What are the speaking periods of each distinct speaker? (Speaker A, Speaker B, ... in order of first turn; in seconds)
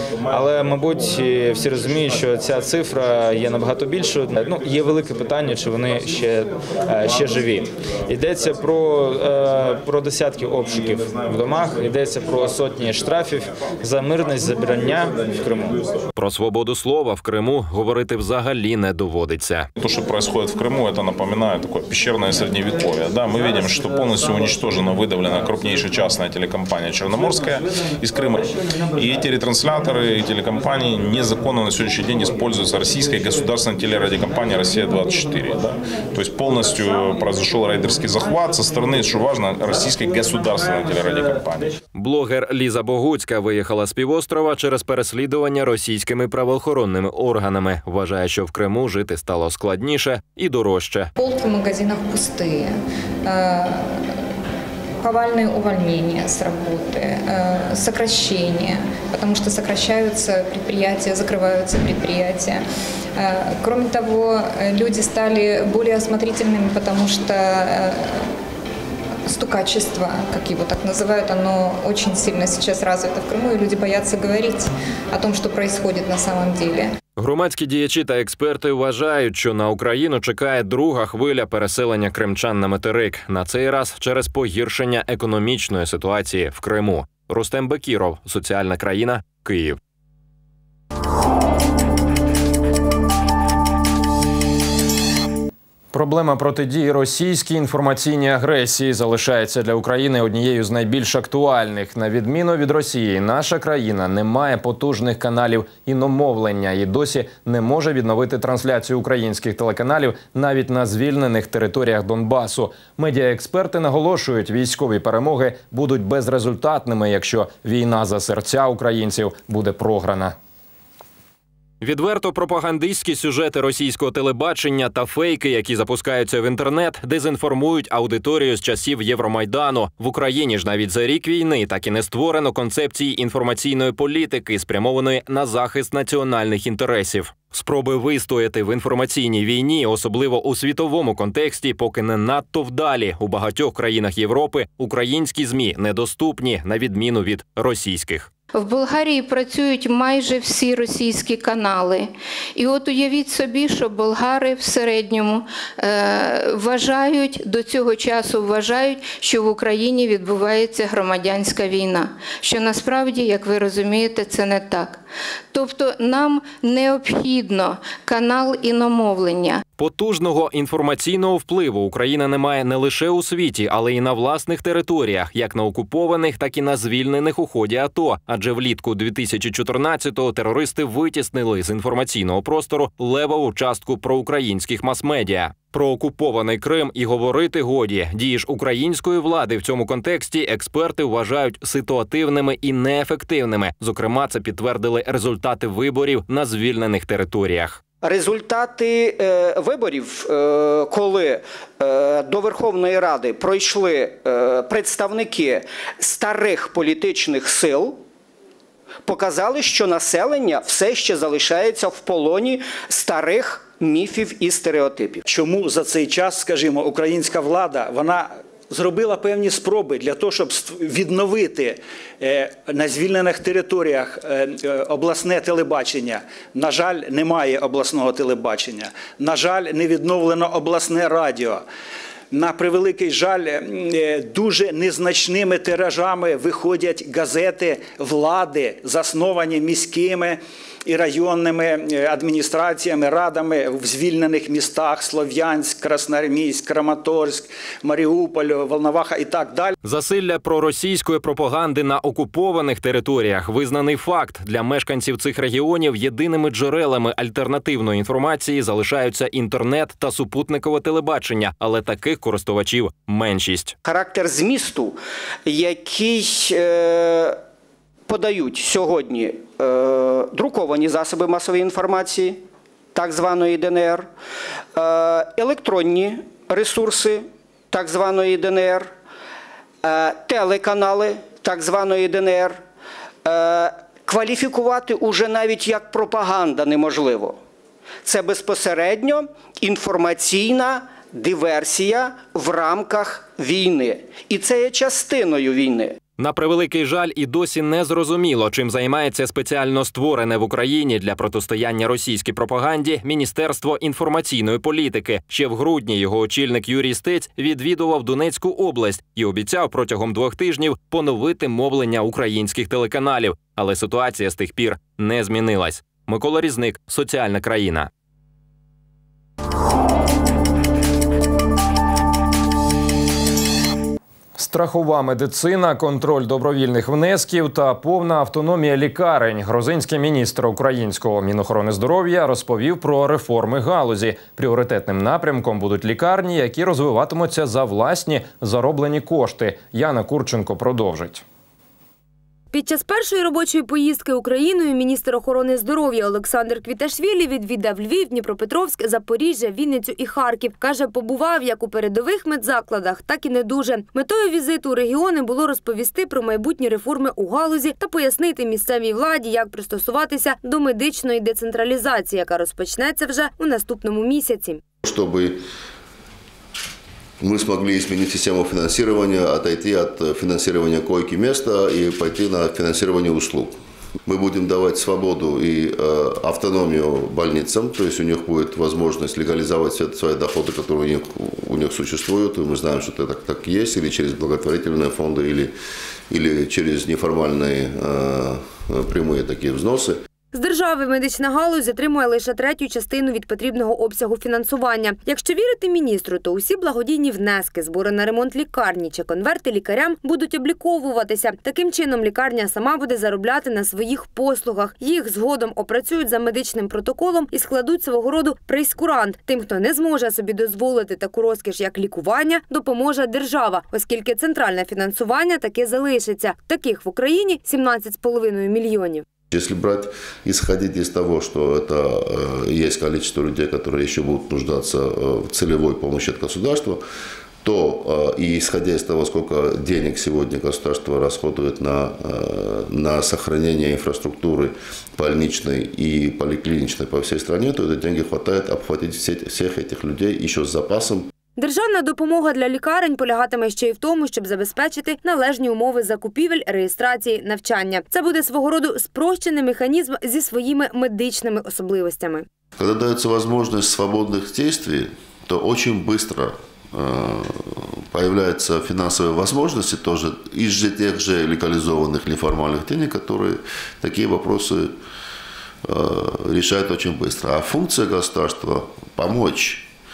Speaker A: 0.3-15.8
Speaker B: 16.2-19.7, 42.0-51.1, 77.2-89.8, 95.9-120.3, 121.8-148.3, 169.8-197.8, 249.8-263.8, 296.2-317.9, 324.4-341.2
Speaker C: 19.8-41.7
Speaker D: 51.2-52.7, 53.3-54.0, 55.0-62.6, 63.2-68.2, 69.3-76.9
Speaker E: 148.5-165.0, 165.5-169.6
Speaker F: 198.0-208.0, 209.0-215.2, 263.9-267.4, 268.1-272.4, 272.9-274.1, 274.7-278.9, 279.8-282.6, 283.2-287.4, 288.0-296.0
Speaker G: 215.3-231.6, 232.3-249.7
Speaker H: 342.5-364.6, 390.3-419.1, 441.4-452.3
Speaker I: 364.8-365.4, 367.2-373.6, 374.1-385.5, 386.1-390.0, 419.3-426.8, 427.4-441.1, 452.6-464.7, 465.7-469.7